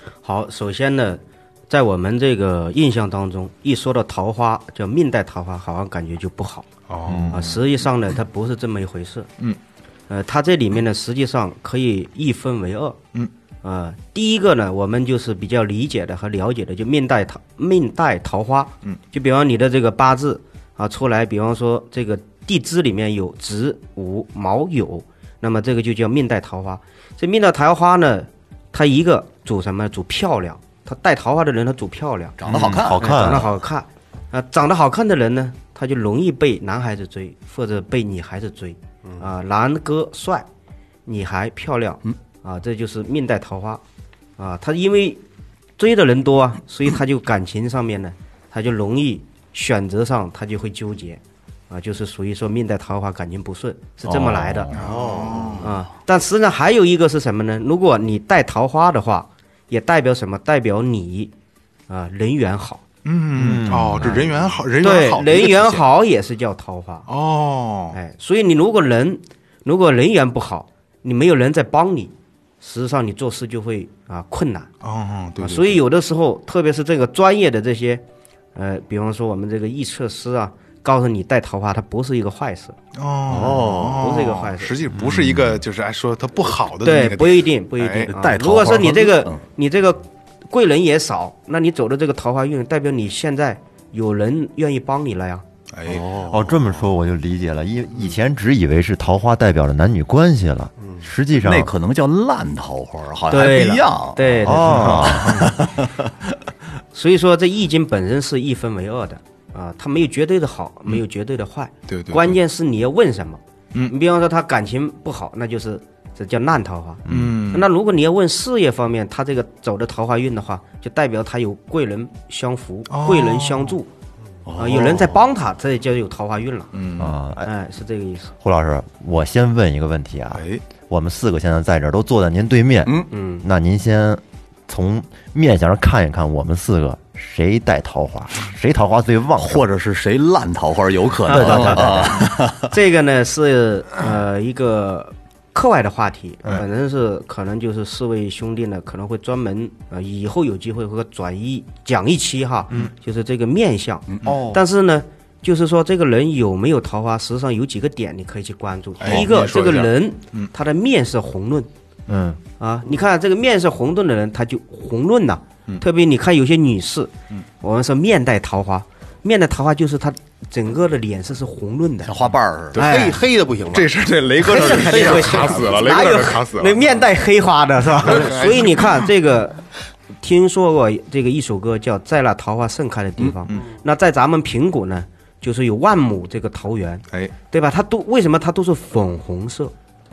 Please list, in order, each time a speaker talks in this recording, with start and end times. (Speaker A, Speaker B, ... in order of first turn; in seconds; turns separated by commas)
Speaker A: 0.2-6.7, Speaker B: 6.9-7.6, Speaker A: 7.3-9.3, Speaker A: 10.1-13.0, Speaker A: 13.6-32.4, Speaker C: 32.4-33.4, Speaker D: 32.5-33.5, Speaker A: 32.9-40.5, Speaker A: 41.0-43.8, Speaker A: 44.4-45.2, Speaker A: 45.8-54.7, Speaker C: 54.1-55.5, Speaker B: 54.7-55.7, Speaker D: 54.8-55.6, Speaker A: 55.6-61.3, Speaker A: 61.9-62.8, Speaker B: 63.0-65.8, Speaker D: 63.3-64.4, Speaker A: 64.8-67.1, Speaker B: 67.1-68.0, Speaker A: 67.9-74.7, Speaker B: 74.8-75.8, Speaker A: 75.4-78.0, Speaker A: 78.5-82.8, Speaker B: 83.0-88.1, Speaker C: 83.3-84.1, Speaker D: 83.3-83.6, Speaker A: 84.0-84.8, Speaker D: 84.9-85.6, Speaker A: 86.8-95.4, Speaker C: 88.2-89.4, Speaker B: 95.7-96.0, Speaker C: 95.8-96.8, Speaker D: 96.3-101.7, Speaker C: 101.4-106.1, Speaker A: 103.3-105.6, Speaker D: 104.4-105.5, Speaker B: 104.7-105.1, Speaker A: 106.9-123.9, Speaker B: 111.9-112.3, Speaker D: 117.1-117.3, Speaker B: 117.1-117.7, Speaker B: 122.9-123.8, Speaker C: 124.5-125.2, Speaker A: 124.6-126.7, Speaker B: 126.7-127.2, Speaker D: 127.0-127.5, Speaker A: 127.4-128.3, Speaker D: 128.4-139.7, Speaker B: 130.3-130.6, Speaker C: 132.8-133.1, Speaker A: 133.1-133.4, Speaker C: 139.4-142.7, Speaker D: 141.3-142.2, Speaker A: 141.3-161.7, Speaker C: 154.1-154.4, Speaker D: 154.2-154.6, Speaker B: 159.0-160.5, Speaker D: 162.1-162.4, Speaker A: 162.6-172.1, Speaker C: 172.0-172.8, Speaker A: 172.7-173.2, Speaker B: 172.7-173.0, Speaker E: 172.8-173.9, Speaker B: 173.7-176.8, Speaker A: 174.4-179.6, Speaker E: 174.5-176.2, Speaker B: 178.0-178.9, Speaker E: 178.1-178.6, Speaker A: 180.2-189.7